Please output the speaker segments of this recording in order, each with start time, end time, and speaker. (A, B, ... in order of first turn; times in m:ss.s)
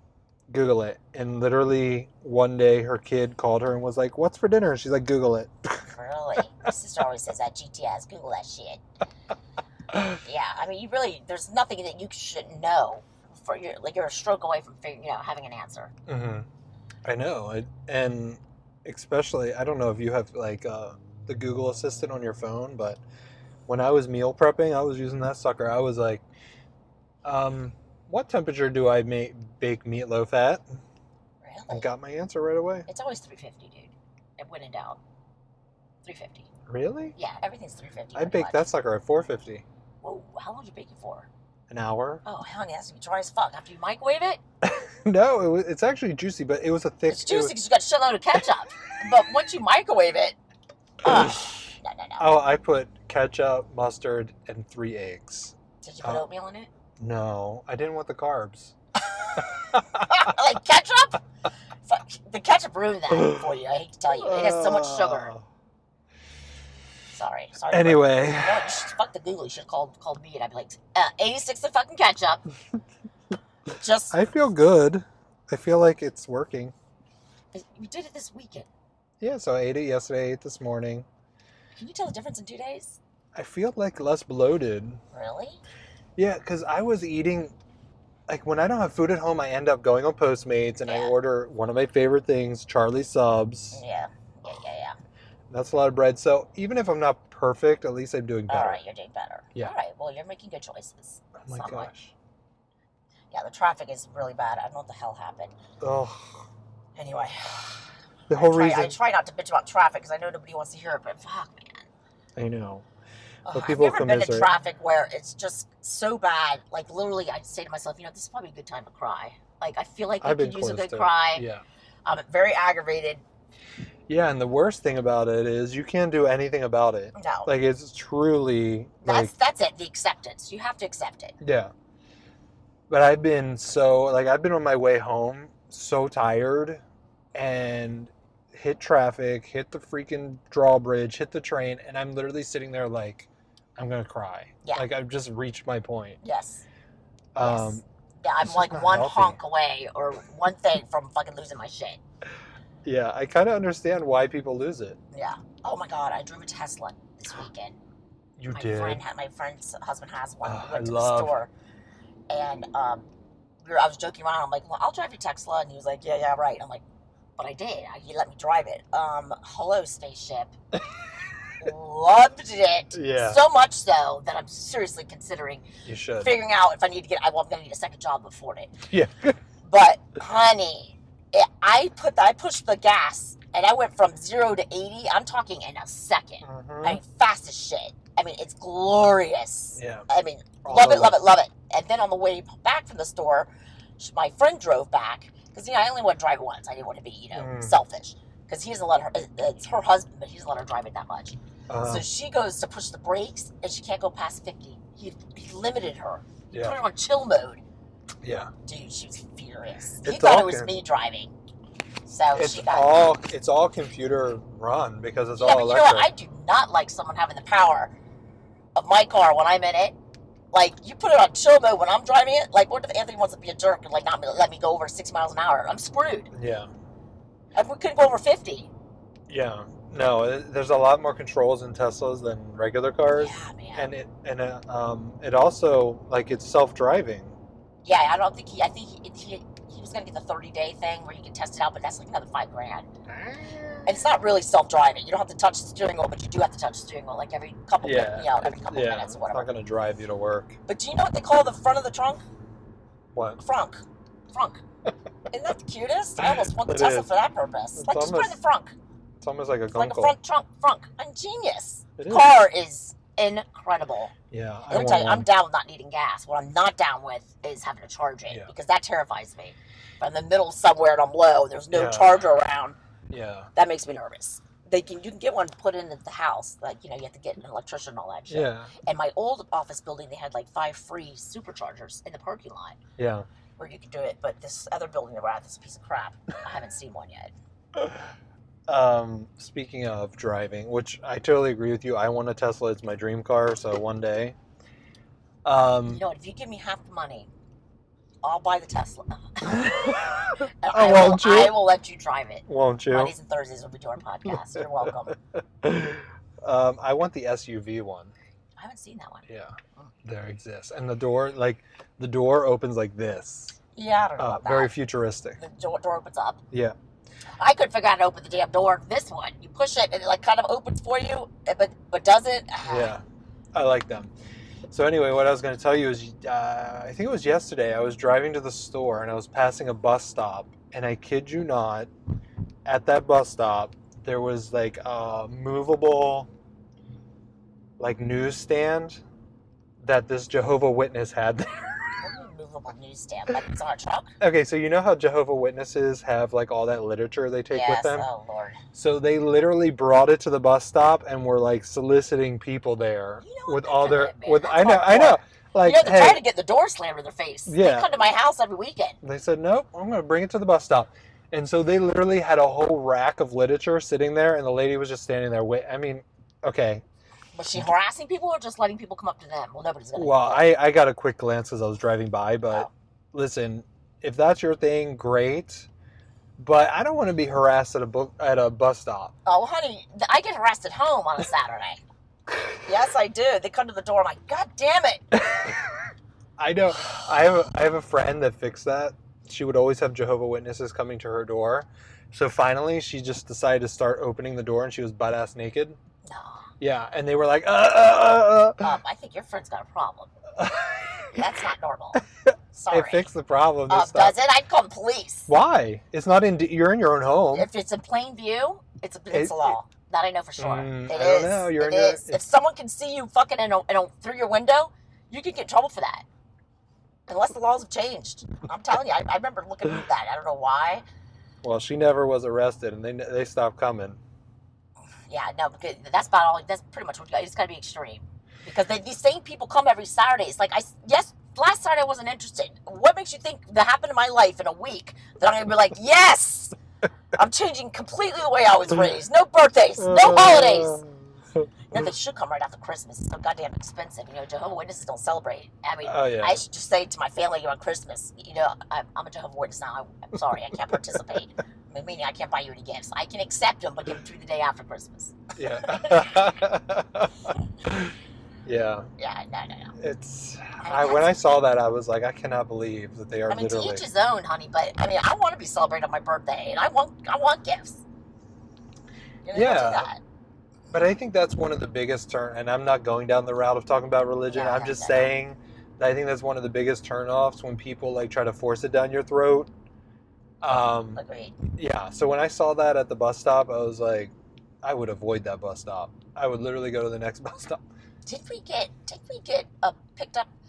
0:00.5-0:05.8 A
0:05.8-0:08.8 B
0:10.0-0:15.9 B
0:16.1-0:16.5 A
0:17.0-0:23.0 A
0:23.7-0:26.2 A
0:27.2-0:30.6 A
0:31.4-0:31.9 B
0:31.7-0:32.8 A
0:32.9-0:35.0 B
0:36.0-0:36.5 B
0:36.7-0:37.2 A
0:37.2-0:38.7 B
0:38.1-0:39.6 A
0:40.0-0:41.3 B
0:41.7-0:42.2 A
0:42.2-0:44.4 B
0:44.6-0:47.6 A
0:47.1-0:50.4 B
0:51.0-0:52.3 B
0:51.0-0:56.2 A
0:55.8-0:56.7 B
0:57.0-0:58.8 A
0:59.4-1:00.3 A
1:00.0-1:01.2 B
1:01.8-1:05.3 B
1:03.2-1:03.4 A
1:04.1-1:05.4 A
1:07.1-1:12.4 B
1:07.7-1:08.7 A
1:13.8-1:14.2 B
1:14.1-1:16.7 A
1:17.5-1:18.7 B
1:19.2-1:21.1 A
1:21.8-1:23.0 B
1:23.3-1:25.0 A
1:25.1-1:25.6 B
1:26.2-1:27.5 A
1:28.3-1:33.8 A
1:30.8-1:31.1 B
1:33.7-1:35.0 B
1:35.5-1:38.8 A
1:38.5-1:41.9 B
1:41.4-1:42.1 A
1:43.3-1:45.5 B
1:45.8-1:46.4 A
1:47.0-1:51.9 B
1:48.3-1:49.0 A
1:52.4-1:52.8 A
1:53.4-2:01.5 B
1:53.5-1:54.5 A
2:00.2-2:01.6 A
2:02.0-2:03.2 B
2:04.1-2:09.3 A
2:07.1-2:07.5 B
2:09.0-2:11.4 B
2:11.4-2:11.7 A
2:12.9-2:16.8 A
2:17.3-2:26.2 A
2:26.2-2:26.6 B
2:27.3-2:27.8 A
2:27.4-2:32.0 B
2:28.4-2:29.4 A
2:32.8-2:35.0 A
2:35.1-2:37.8 B
2:38.4-2:39.0 A
2:38.5-2:41.5 B
2:40.4-2:41.3 A
2:42.3-2:43.0 B
2:43.6-2:46.8 B
2:47.4-2:50.5 B
2:51.6-2:55.6 B
2:52.9-2:53.4 A
2:55.8-2:56.4 A
2:56.2-2:58.8 B
2:58.9-2:59.4 A
2:59.6-3:27.6 B
3:06.4-3:07.0 A
3:09.8-3:10.0 A
3:10.6-3:11.2 A
3:17.3-3:17.8 A
3:21.7-3:22.0 A
3:26.5-3:26.8 A
3:28.2-3:28.5 A
3:28.6-3:31.3 B
3:30.0-3:30.7 A
3:32.0-3:33.0 B
3:32.3-3:36.1 A
3:35.4-3:37.9 B
3:38.8-3:40.0 B
3:40.5-3:46.3 B
3:46.3-3:46.7 A
3:47.5-3:48.7 B
3:49.3-3:57.3 A
3:53.1-3:53.9 B
3:57.8-4:02.9 B
4:03.1-4:04.0 A
4:03.8-4:09.5 B
4:07.8-4:10.6 A
4:10.7-4:12.2 B
4:13.1-4:13.4 A
4:13.4-4:14.6 B
4:15.3-4:18.7 B
4:16.2-4:17.1 A
4:17.7-4:18.4 A
4:19.2-4:20.2 A
4:19.7-4:24.1 B
4:22.0-4:22.3 A
4:24.3-4:25.3 A
4:24.7-4:32.8 B
4:31.7-4:32.3 A
4:33.1-4:33.5 A
4:33.6-4:42.8 B
4:38.3-4:38.7 A
4:43.0-4:43.2 A
4:43.6-4:47.3 B
4:48.7-4:54.4 A
4:55.4-4:56.0 A
4:55.9-4:57.3 B
4:58.2-5:05.2 B
4:59.4-5:01.6 A
5:02.5-5:03.1 A
5:05.6-5:08.1 A
5:08.6-5:09.9 B
5:09.3-5:13.6 A
5:13.7-5:14.7 B
5:14.2-5:15.4 A
5:15.4-5:16.4 B
5:17.4-5:23.0 B
5:22.6-5:23.0 A
5:23.5-5:24.1 A
5:24.7-5:31.9 A
5:32.6-5:36.3 A
5:37.8-5:39.0 A
5:39.8-5:41.6 A
5:42.0-5:44.1 B
5:44.2-5:48.1 A
5:47.5-5:48.6 B
5:48.7-5:56.2 A
5:53.2-5:59.0 B
5:57.5-5:57.9 A
5:59.0-6:06.8 A
6:07.3-6:10.4 B
6:10.0-6:15.7 A
6:16.4-6:19.1 A
6:19.2-6:21.8 B
6:22.6-6:25.1 B
6:26.4-6:35.8 A
6:36.0-6:36.5 B
6:36.6-6:38.7 A
6:38.6-6:40.1 B
6:40.4-6:41.2 A
6:41.1-6:43.1 B
6:42.7-6:44.1 A
6:43.7-6:45.3 B
6:45.3-6:47.5 A
6:47.3-6:56.0 B
6:49.1-6:49.5 A
6:50.4-6:52.2 A
6:57.1-7:00.8 B
7:01.4-7:04.0 A
7:05.1-7:16.5 B
7:17.1-7:20.8 B
7:19.8-7:21.8 A
7:21.7-7:36.3 B
7:25.8-7:26.4 A
7:35.4-7:37.9 A
7:38.4-7:38.9 A
7:39.0-7:39.7 B
7:39.8-7:43.8 A
7:40.6-7:41.2 B
7:43.3-7:47.8 B
7:49.2-7:50.0 B
7:49.3-7:49.9 A
7:50.7-7:59.5 A
7:54.3-7:55.1 B
8:00.4-8:01.0 A
8:01.0-8:01.4 B
8:01.5-8:07.6 A
8:08.0-8:10.3 B